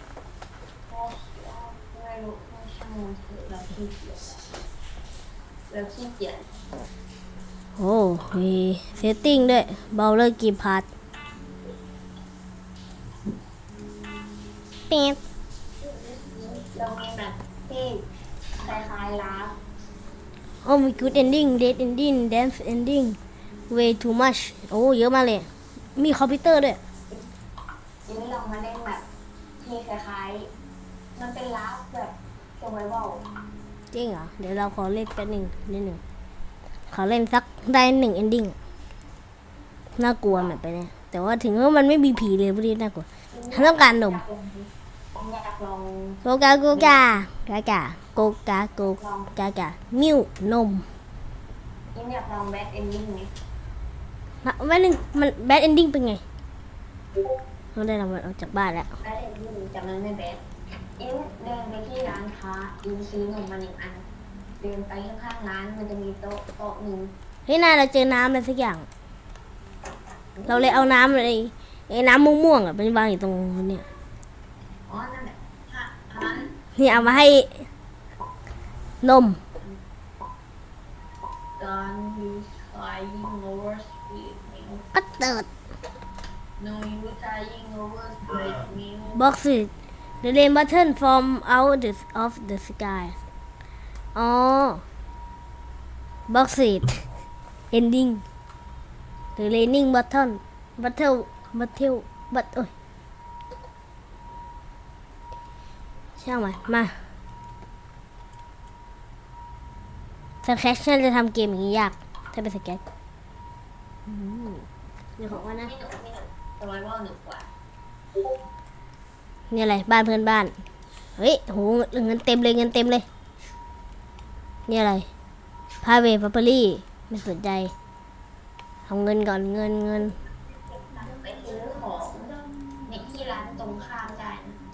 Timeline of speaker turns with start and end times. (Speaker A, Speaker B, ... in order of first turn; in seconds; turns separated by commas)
Speaker A: 0.9-4.5, Speaker A: 5.7-6.5, Speaker B: 7.8-10.9, Speaker B: 14.9-15.2, Speaker A: 15.8-18.1, Speaker A: 18.6-19.6, Speaker B: 20.6-23.2, Speaker B: 23.7-26.8, Speaker A: 28.1-29.1, Speaker A: 29.6-30.5, Speaker A: 31.2-33.2, Speaker B: 33.9-36.0, Speaker B: 36.9-38.6, Speaker B: 40.0-44.2, Speaker A: 43.3-47.0, Speaker B: 46.2-50.9, Speaker A: 49.0-49.3, Speaker A: 51.9-53.3, Speaker B: 54.4-56.2, Speaker B: 57.8-58.9, Speaker A: 59.0-60.4, Speaker A: 61.0-64.1, Speaker A: 64.6-67.1, Speaker B: 67.5-68.9, Speaker A: 70.4-71.0, Speaker B: 70.5-73.8, Speaker A: 74.9-76.6, Speaker B: 76.8-77.6, Speaker B: 79.0-79.4, Speaker A: 81.6-84.8, Speaker B: 84.9-85.5, Speaker A: 86.6-89.3, Speaker B: 89.2-89.7, Speaker B: 90.2-93.2, Speaker B: 94.2-94.8, Speaker B: 96.3-97.0, Speaker B: 97.7-98.2, Speaker B: 99.4-102.7, Speaker B: 106.2-107.0, Speaker B: 110.4-112.8, Speaker B: 114.1-114.7, Speaker B: 115.2-115.7, Speaker A: 115.3-117.5, Speaker B: 119.5-120.5, Speaker B: 121.2-123.0, Speaker B: 124.7-125.1, Speaker B: 125.8-127.7, Speaker B: 128.9-130.2, Speaker A: 130.4-134.6